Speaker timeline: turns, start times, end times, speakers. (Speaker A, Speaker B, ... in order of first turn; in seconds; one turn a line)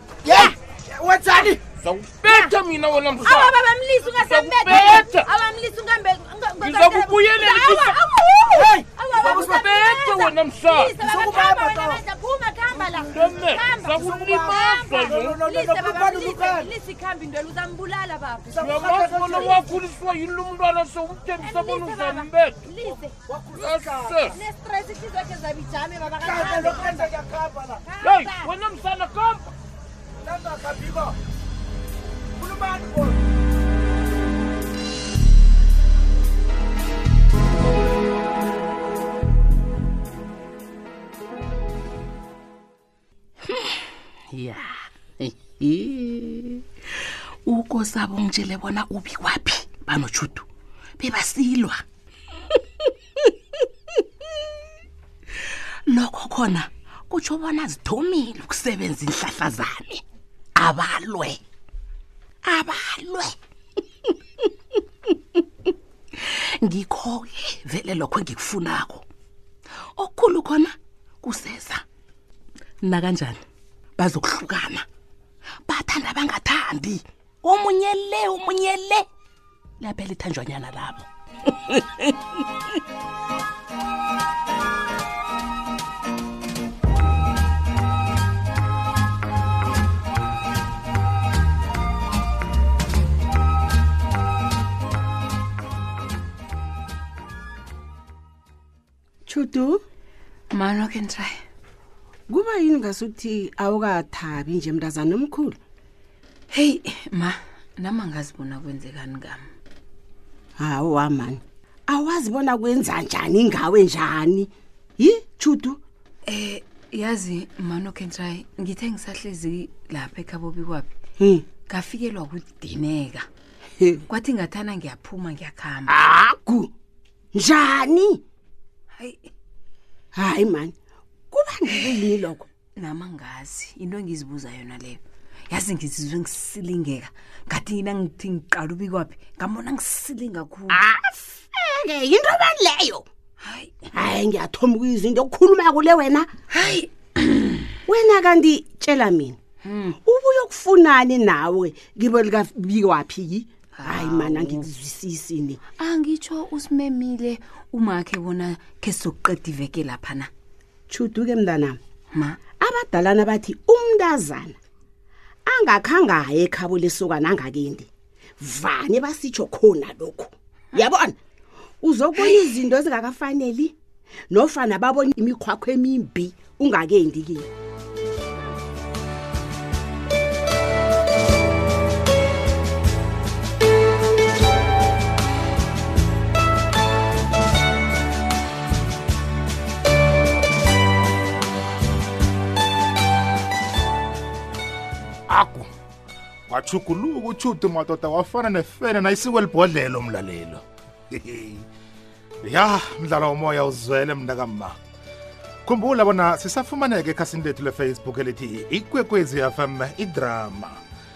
Speaker A: 0.2-1.6
Speaker B: 0.3-0.5
Speaker C: 1.8-5.3
Speaker B: 2.2-2.5
Speaker B: 3.1-19.6
Speaker C: 6.6-8.5
Speaker A: 8.5-9.7
Speaker C: 9.1-10.9
Speaker A: 11.0-12.0
Speaker C: 12.7-15.4
Speaker A: 13.9-16.7
Speaker A: 18.5-19.6
Speaker C: 18.6-22.7
Speaker B: 21.4-23.1
Speaker A: 23.3-24.4
Speaker C: 23.5-24.4
Speaker B: 24.3-27.0
Speaker A: 26.2-27.8
Speaker B: 27.9-28.5
Speaker C: 28.0-29.5
Speaker A: 30.2-31.2
Speaker A: 32.4-33.2
Speaker D: 44.3-46.6
Speaker D: 47.4-50.5
Speaker D: 51.0-51.8
Speaker D: 55.9-60.0
Speaker D: 60.6-61.4
Speaker D: 62.5-63.3
Speaker D: 66.2-69.0
Speaker D: 70.0-71.8
Speaker D: 72.8-73.4
Speaker D: 74.0-74.8
Speaker D: 75.7-79.0
Speaker D: 79.8-82.3
Speaker E: 99.2-99.8
Speaker D: 100.5-101.3
Speaker E: 102.3-105.6
Speaker D: 106.5-109.4
Speaker E: 110.6-115.8
Speaker D: 116.3-120.9
Speaker E: 121.2-121.4
Speaker D: 121.5-123.2
Speaker D: 124.1-126.0
Speaker E: 126.1-126.7
Speaker E: 127.3-128.2
Speaker D: 129.0-129.3
Speaker E: 130.2-130.7
Speaker E: 131.3-132.5
Speaker D: 132.8-140.8
Speaker E: 140.7-143.0
Speaker D: 143.4-143.9
Speaker E: 143.9-146.3
Speaker D: 146.5-147.7
Speaker E: 147.9-149.3
Speaker D: 149.6-149.9
Speaker E: 150.0-155.6
Speaker D: 153.8-154.7
Speaker D: 155.8-160.3
Speaker E: 160.9-161.8
Speaker D: 162.1-162.4
Speaker E: 162.6-164.5
Speaker E: 165.5-167.9
Speaker E: 168.4-171.1
Speaker E: 171.8-173.7
Speaker E: 174.3-177.5
Speaker F: 195.3-195.7
Speaker F: 196.5-201.7
Speaker F: 202.4-204.8
Speaker F: 205.7-210.8